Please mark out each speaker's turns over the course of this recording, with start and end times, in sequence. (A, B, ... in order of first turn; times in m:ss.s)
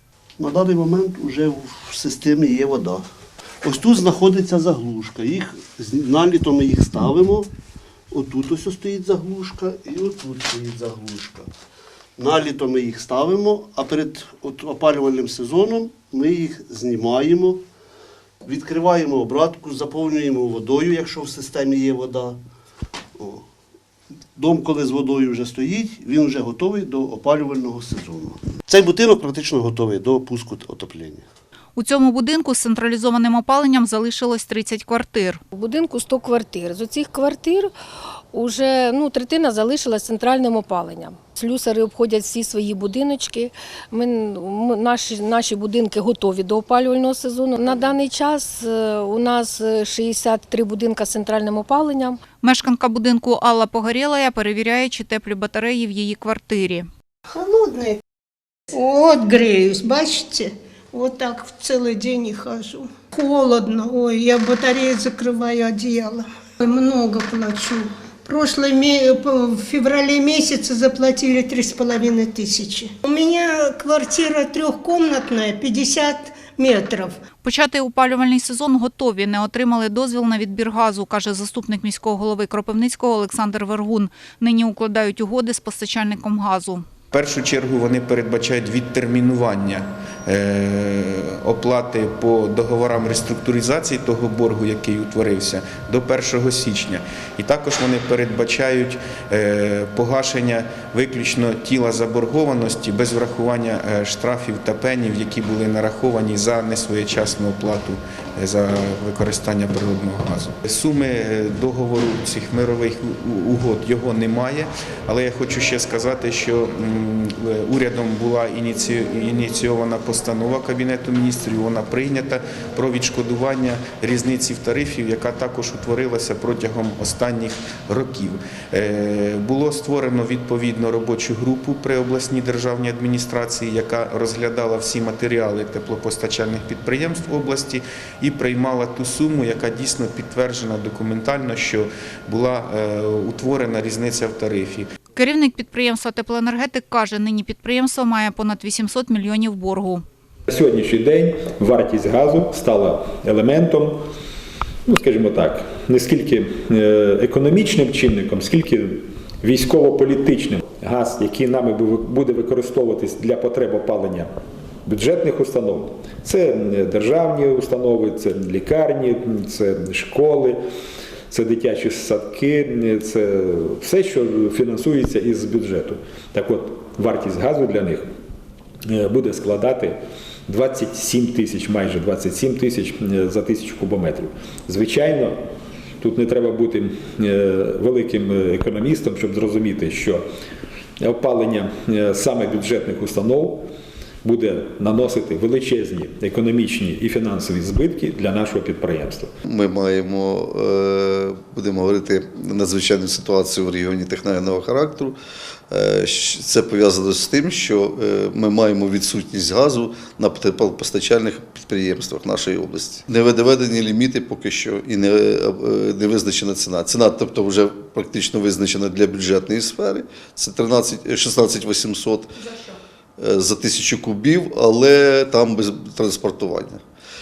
0:00.4-0:03.0 A
0:03.6-0:07.5 A
0:08.1-0:11.5 A
0:12.2-0:17.6 A
0:18.4-0:22.4 A
0:23.2-0:23.4 A
0:24.4-0:31.2 A
0:31.7-0:35.4 B
0:35.5-0:37.7 C
0:38.3-0:52.2 C
0:52.4-0:56.9 B
0:57.3-0:58.0 D
0:58.7-1:17.2 D
1:17.4-1:26.8 B
1:27.1-2:24.9 E
2:25.1-2:30.0 B
2:30.5-2:34.0 F
2:34.9-2:44.3 F
2:44.8-2:50.6 F
2:51.3-2:58.0 F
2:58.9-3:00.0 F
3:00.5-3:05.3 F
3:06.0-3:10.2 F
3:11.0-3:13.6 F
3:14.2-3:19.3 F
3:19.4-3:25.2 G
3:25.7-3:42.3 G
3:43.2-3:46.8 G